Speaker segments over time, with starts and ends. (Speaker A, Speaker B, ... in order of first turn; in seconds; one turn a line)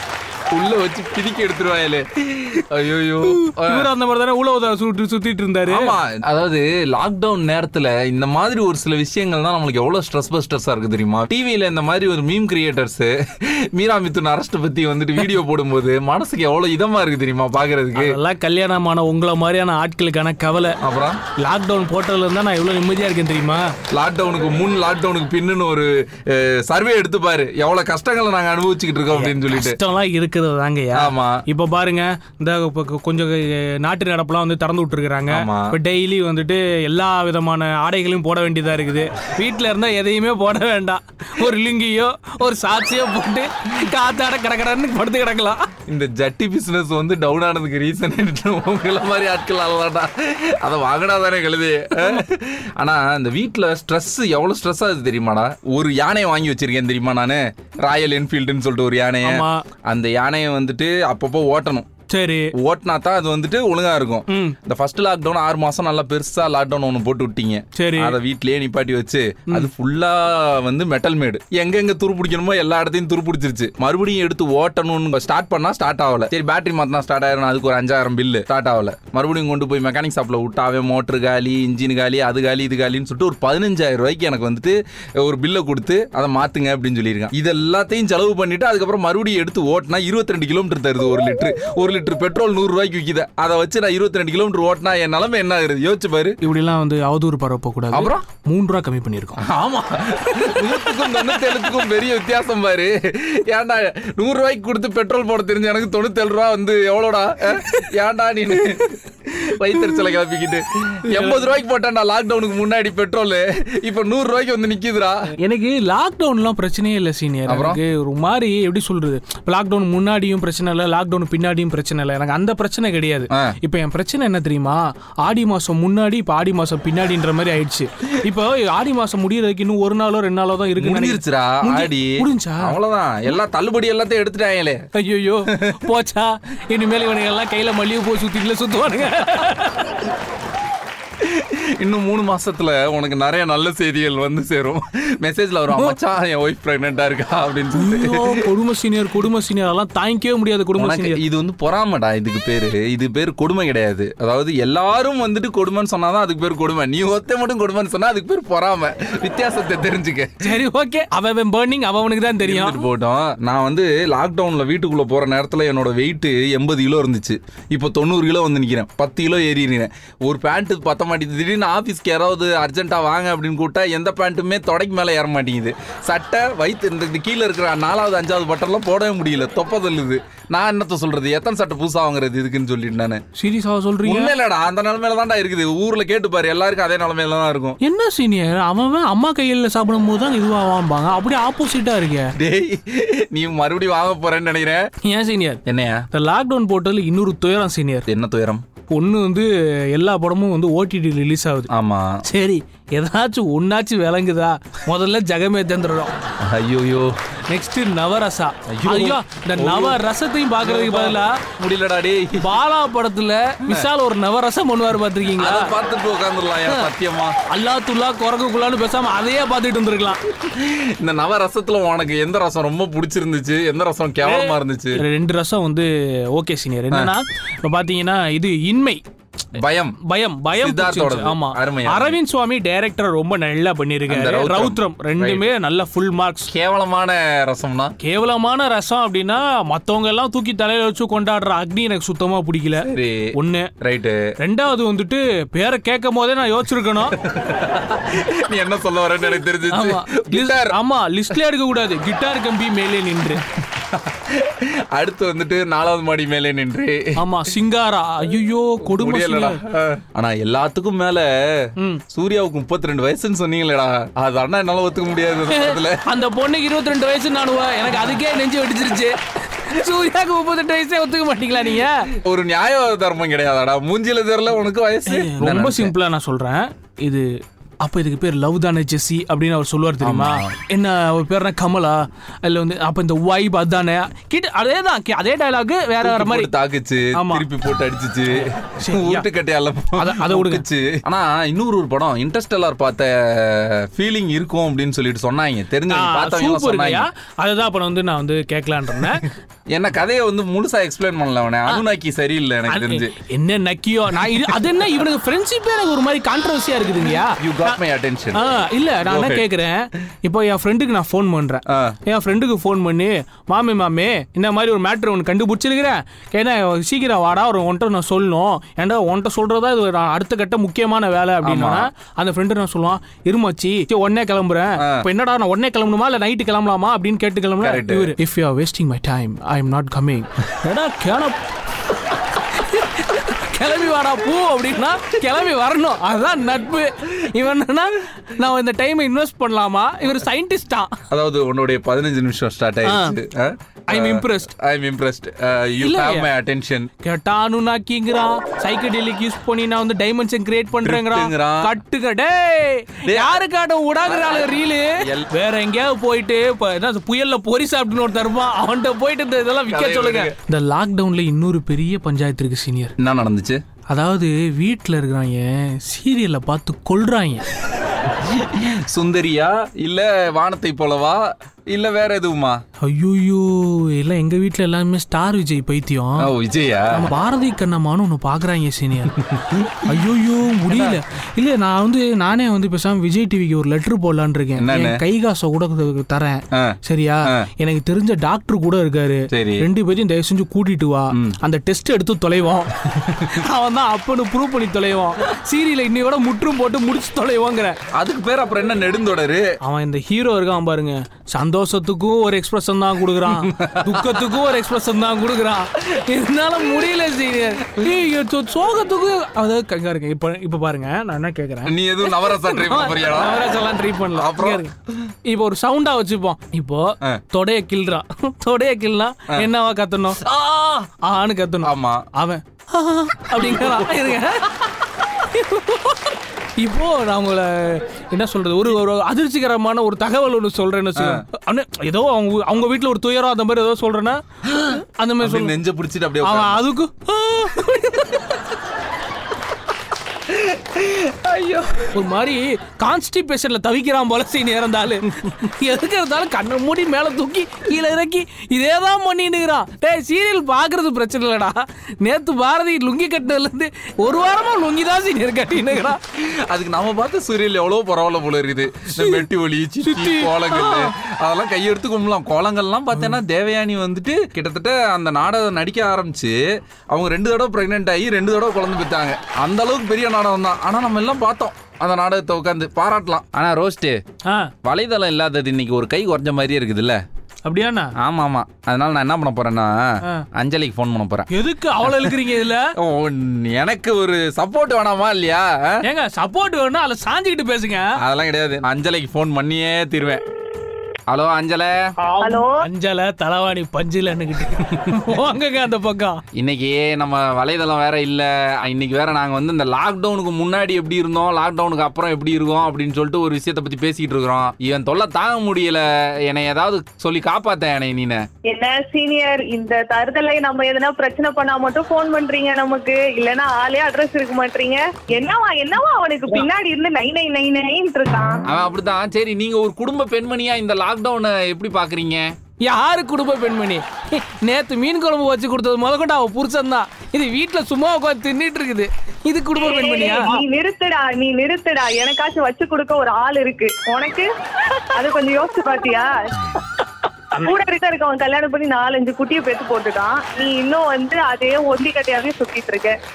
Speaker A: 0.5-3.9
Speaker B: 3.2-6.0
Speaker A: 5.7-18.2
Speaker B: 17.9-20.8
Speaker A: 20.8-21.2
Speaker B: 21.4-23.7
Speaker A: 23.9-29.8
Speaker B: 29.1-45.7
Speaker A: 31.0-31.4
Speaker A: 35.3-35.7
Speaker A: 45.9-61.9
Speaker B: 51.9-52.2
Speaker B: 59.2-59.6
Speaker B: 62.1-62.5
Speaker A: 62.5-96.3
Speaker B: 64.3-64.5
Speaker B: 67.8-68.2
Speaker B: 96.4-99.4
Speaker A: 97.9-98.2
Speaker A: 99.4-115.3
Speaker B: 100.3-101.8
Speaker B: 108.6-108.8
Speaker B: 111.1-111.5
Speaker B: 115.4-132.8
Speaker A: 117.5-117.8
Speaker A: 130.8-134.8
Speaker B: 134.9-139.9
Speaker A: 141.2-148.2
Speaker B: 145.7-146.0
Speaker B: 147.7-151.2
Speaker A: 150.8-160.3
Speaker B: 160.4-162.9
Speaker A: 162.4-183.2
Speaker B: 183.4-184.3
Speaker A: 184.0-187.8
Speaker B: 187.8-192.3
Speaker A: 192.4-194.8
Speaker B: 195.0-198.1
Speaker A: 195.7-196.0
Speaker A: 198.1-198.6
Speaker B: 198.9-201.7
Speaker A: 201.7-202.2
Speaker B: 202.2-206.1
Speaker A: 206.4-207.1
Speaker B: 207.5-211.3
Speaker A: 208.7-210.0
Speaker A: 210.6-212.4
Speaker B: 212.4-215.7
Speaker A: 215.3-217.3
Speaker B: 216.7-216.9
Speaker B: 217.5-220.2
Speaker A: 220.4-225.0
Speaker B: 224.2-229.0
Speaker A: 229.6-230.0
Speaker B: 230.0-236.5
Speaker A: 230.5-232.2
Speaker A: 234.1-235.4
Speaker A: 236.5-237.9
Speaker B: 238.0-243.7
Speaker A: 242.8-244.2
Speaker B: 244.4-247.2
Speaker A: 247.2-250.8
Speaker B: 249.7-253.4
Speaker A: 253.7-257.2
Speaker B: 257.2-259.6
Speaker A: 258.9-261.3
Speaker A: 262.1-266.0
Speaker B: 265.5-272.1
Speaker A: 272.2-275.9
Speaker B: 275.1-277.3
Speaker B: 277.8-286.5
Speaker A: 280.0-280.6
Speaker A: 286.0-297.1
Speaker B: 287.1-287.5
Speaker B: 288.8-289.3
Speaker B: 289.9-290.6
Speaker B: 295.9-299.2
Speaker A: 299.7-303.1
Speaker B: 302.7-307.8
Speaker A: 304.2-304.8
Speaker A: 307.4-308.4
Speaker B: 308.3-331.4
Speaker A: 309.0-309.4
Speaker A: 311.7-312.0
Speaker A: 321.4-321.9
Speaker A: 324.8-325.1
Speaker A: 327.6-328.1
Speaker B: 332.3-340.9
Speaker A: 341.1-346.9
Speaker B: 342.8-343.2
Speaker B: 343.9-344.5
Speaker B: 345.8-346.3
Speaker B: 347.0-362.9
Speaker A: 350.8-351.7
Speaker A: 353.0-353.3
Speaker A: 354.0-355.3
Speaker A: 359.7-360.4
Speaker A: 363.0-363.6
Speaker B: 363.9-367.4
Speaker A: 368.1-372.6
Speaker B: 372.8-376.3
Speaker A: 376.2-377.1
Speaker B: 376.9-397.8
Speaker A: 379.4-380.1
Speaker A: 380.6-381.0
Speaker A: 384.6-385.0
Speaker A: 389.3-389.7
Speaker A: 397.9-399.4
Speaker B: 399.6-414.7
Speaker A: 403.3-404.1
Speaker A: 411.7-413.4
Speaker A: 414.1-414.6
Speaker B: 415.2-420.2
Speaker A: 420.2-420.9
Speaker B: 421.0-435.6
Speaker A: 421.6-422.0
Speaker A: 431.0-431.2
Speaker A: 434.5-436.6
Speaker B: 436.2-438.4
Speaker A: 440.3-441.9
Speaker B: 441.9-456.0
Speaker A: 456.5-466.3
Speaker B: 458.9-459.3
Speaker B: 459.8-460.9
Speaker A: 466.9-474.0
Speaker A: 474.6-477.0
Speaker B: 477.4-477.9
Speaker A: 478.0-481.3
Speaker B: 481.3-482.6
Speaker A: 481.9-482.2
Speaker A: 482.8-485.8
Speaker B: 485.8-487.9
Speaker A: 488.0-490.2
Speaker A: 491.1-491.8
Speaker B: 492.0-496.2
Speaker C: 492.2-492.7
Speaker A: 496.4-508.2
Speaker C: 508.5-518.5
Speaker A: 518.5-522.3
Speaker B: 522.6-530.3
Speaker C: 529.5-534.3
Speaker C: 534.9-536.5
Speaker C: 537.3-542.9